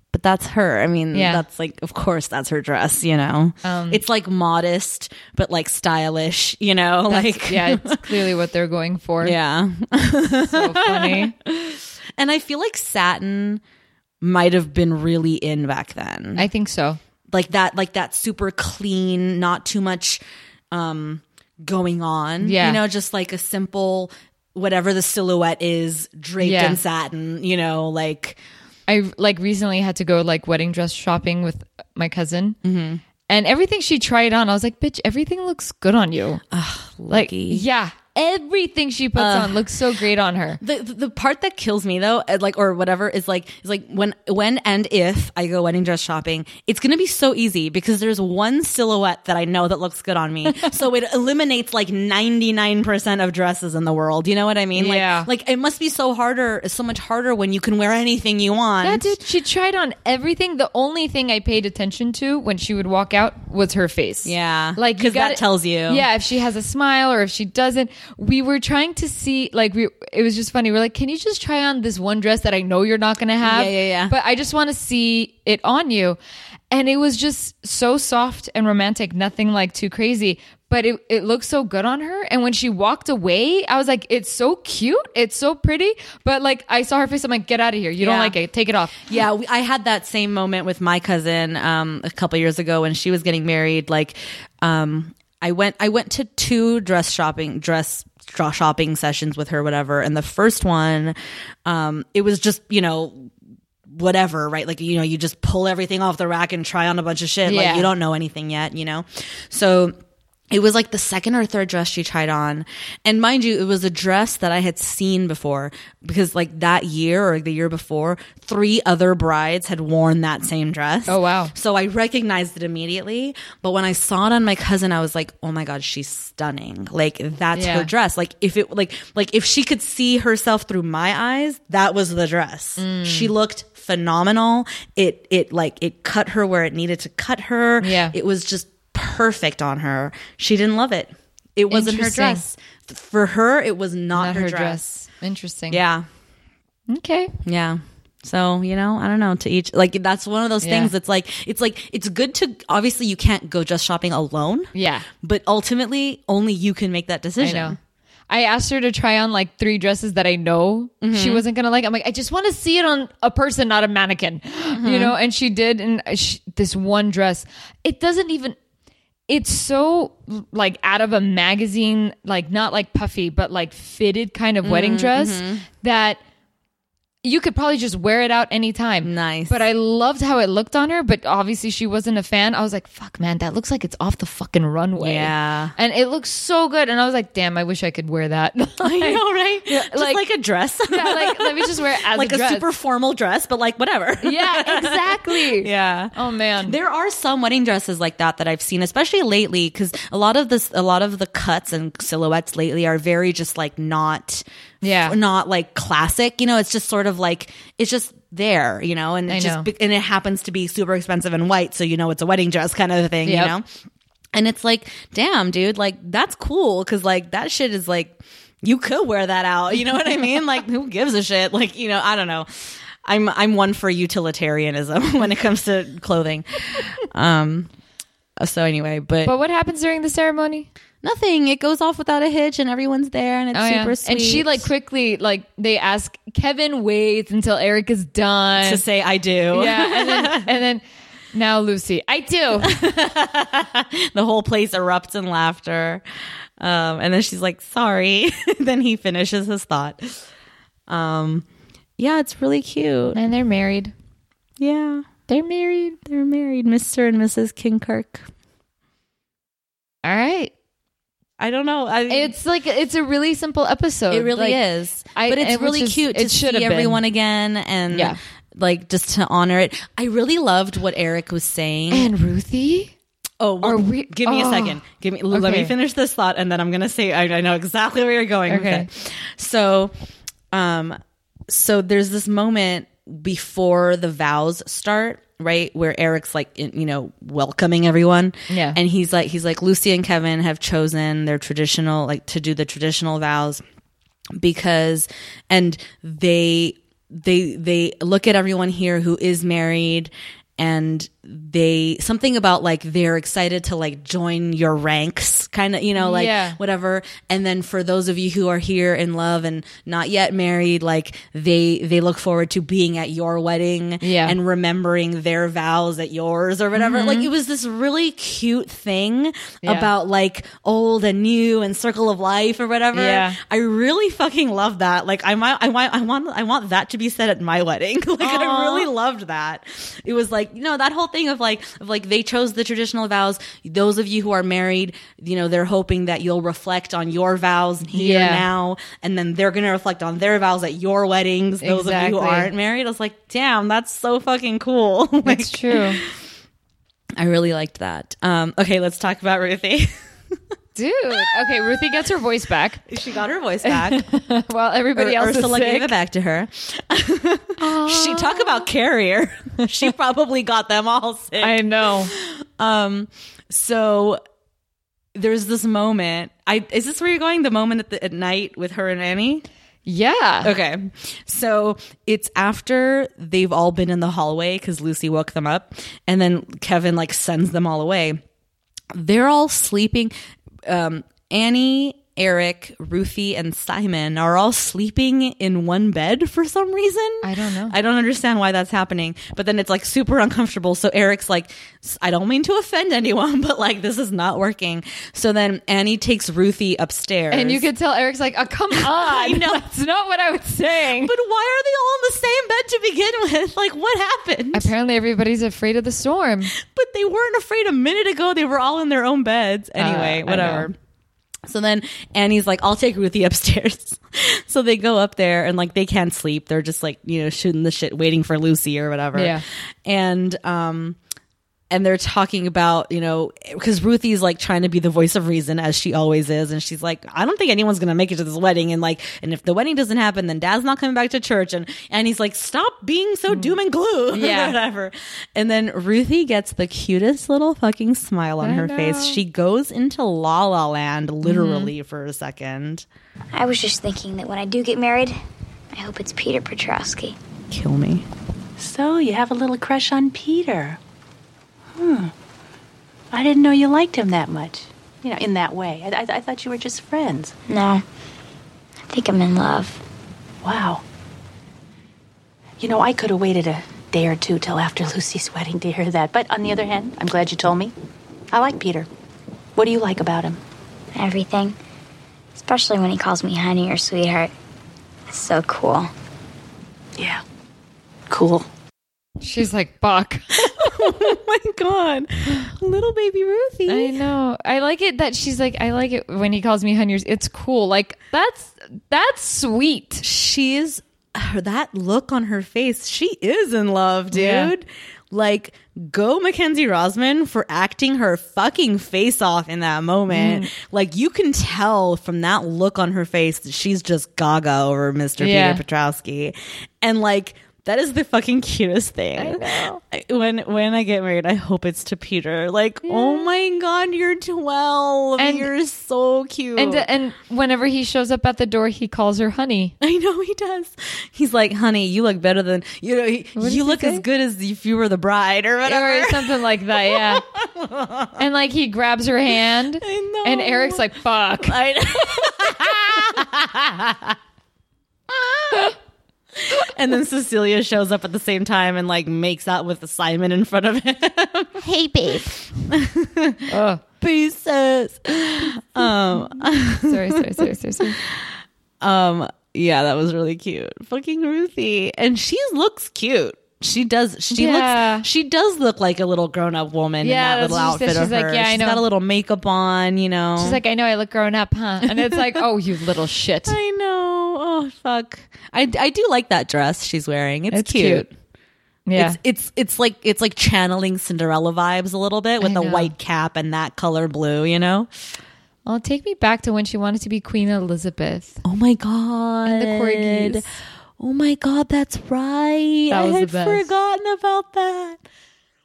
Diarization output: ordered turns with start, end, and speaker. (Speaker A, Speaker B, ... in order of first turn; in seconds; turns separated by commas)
Speaker A: 0.1-8.2, Speaker B: 1.1-1.4, Speaker B: 3.6-4.0, Speaker B: 7.1-9.4, Speaker A: 9.2-13.6, Speaker B: 10.4-11.3, Speaker A: 14.2-16.5, Speaker B: 16.4-17.0, Speaker A: 17.3-28.4, Speaker B: 22.4-22.8, Speaker B: 26.4-26.8, Speaker B: 28.9-32.6, Speaker A: 32.6-33.0, Speaker B: 33.3-36.4, Speaker A: 36.5-37.6, Speaker B: 37.1-40.6, Speaker A: 39.1-39.7, Speaker A: 40.6-59.2, Speaker B: 54.8-55.3, Speaker B: 58.8-76.2, Speaker A: 64.2-66.1, Speaker A: 73.4-74.2, Speaker B: 76.7-89.0, Speaker A: 88.0-88.4, Speaker A: 89.1-103.3, Speaker A: 103.9-110.0, Speaker B: 107.5-107.9, Speaker A: 110.5-144.9, Speaker B: 121.1-121.5, Speaker B: 127.5-127.9, Speaker B: 132.8-133.3, Speaker B: 137.8-138.2, Speaker B: 141.7-142.4, Speaker B: 144.1-145.8, Speaker A: 145.7-146.1, Speaker B: 146.9-147.3, Speaker A: 147.4-157.8, Speaker B: 150.6-150.9, Speaker B: 154.7-155.1, Speaker B: 157.4-157.8, Speaker B: 158.3-168.6, Speaker A: 161.0-161.4, Speaker A: 164.8-165.2, Speaker B: 169.3-176.2, Speaker A: 174.6-175.7, Speaker B: 177.2-190.2, Speaker A: 179.0-179.6, Speaker A: 185.0-185.8, Speaker A: 188.8-213.7, Speaker B: 190.9-192.7, Speaker B: 194.2-196.8, Speaker B: 204.8-205.2, Speaker B: 209.3-209.7, Speaker B: 213.2-213.5, Speaker A: 214.3-227.7, Speaker A: 228.4-229.3, Speaker B: 229.2-230.7, Speaker A: 231.0-234.7, Speaker B: 233.5-238.8, Speaker A: 238.6-240.5, Speaker B: 239.5-242.8, Speaker A: 242.6-246.0, Speaker A: 246.6-250.2, Speaker A: 250.9-251.5, Speaker A: 252.0-253.2, Speaker B: 253.1-253.9, Speaker A: 254.6-258.3, Speaker B: 260.0-260.5, Speaker A: 261.4-262.3, Speaker B: 262.1-264.6, Speaker A: 264.1-272.1, Speaker B: 265.1-267.0, Speaker B: 267.9-268.2, Speaker B: 271.9-272.9, Speaker A: 273.4-279.9, Speaker B: 273.6-275.7, Speaker B: 278.5-278.9, Speaker A: 280.5-293.6, Speaker B: 288.5-288.8, Speaker A: 294.4-346.1, Speaker B: 306.0-306.6, Speaker B: 314.0-314.4, Speaker B: 316.8-317.3, Speaker B: 319.6-319.9, Speaker B: 322.9-323.4, Speaker B: 328.2-328.9, Speaker B: 337.9-338.4, Speaker B: 341.6-342.5, Speaker B: 345.2-346.0, Speaker A: 347.2-349.9, Speaker B: 350.8-352.8, Speaker A: 351.2-351.9, Speaker A: 352.9-354.1, Speaker B: 353.6-355.9, Speaker A: 354.9-364.2, Speaker B: 357.6-358.7, Speaker B: 361.4-362.1, Speaker A: 365.1-369.4, Speaker B: 369.9-370.5, Speaker A: 370.4-378.2, Speaker A: 378.9-380.1, Speaker A: 380.6-397.6, Speaker B: 387.2-387.8, Speaker B: 397.3-401.1, Speaker A: 398.7-399.6, Speaker A: 401.0-404.7, Speaker B: 404.5-406.5, Speaker A: 406.5-410.8, Speaker B: 409.8-410.7, Speaker A: 411.5-421.0, Speaker B: 419.1-419.4, Speaker A: 421.7-442.9, Speaker B: 434.1-434.6, Speaker B: 438.4-439.2, Speaker B: 441.2-441.7, Speaker C: 443.3-445.2, Speaker C: 445.7-447.2, Speaker A: 447.5-448.1, Speaker D: 448.6-450.8, Speaker D: 451.8-452.1, Speaker D: 453.1-457.3, Speaker C: 457.5-457.8, Speaker C: 458.9-459.8, Speaker D: 460.4-460.8, Speaker D: 462.6-467.7, Speaker D: 468.3-468.9, Speaker D: 469.6-470.4, Speaker C: 470.9-471.6, Speaker C: 472.4-474.3, Speaker C: 475.1-475.9, Speaker D: 477.0-477.2, Speaker D: 478.1-478.5, Speaker B: 479.2-481.1, Speaker A: 480.4-484.0, Speaker B: 483.7-490.0, Speaker A: 490.0-516.9, Speaker B: 494.1-494.5, Speaker B: 500.1-500.5, Speaker B: 505.2-505.6, Speaker B: 509.2-509.8, Speaker B: 512.8-513.3, Speaker B: 515.2-515.5, Speaker B: 516.6-519.8, Speaker A: 519.8-528.2, Speaker B: 523.4-524.0, Speaker B: 525.6-527.2, Speaker B: 528.2-531.6, Speaker A: 529.8-534.2, Speaker A: 535.1-535.8, Speaker A: 536.3-543.5, Speaker B: 543.5-543.8, Speaker A: 544.0-560.6, Speaker B: 546.9-548.0, Speaker B: 554.3-555.1, Speaker B: 557.0-558.8, Speaker B: 560.4-563.6, Speaker A: 561.8-562.5, Speaker A: 563.5-568.1, Speaker B: 567.5-568.0, Speaker B: 568.9-569.2, Speaker A: 569.0-574.9, Speaker B: 572.4-572.9, Speaker B: 575.7-578.4, Speaker A: 578.4-585.0, Speaker B: 579.5-580.5, Speaker B: 582.9-583.7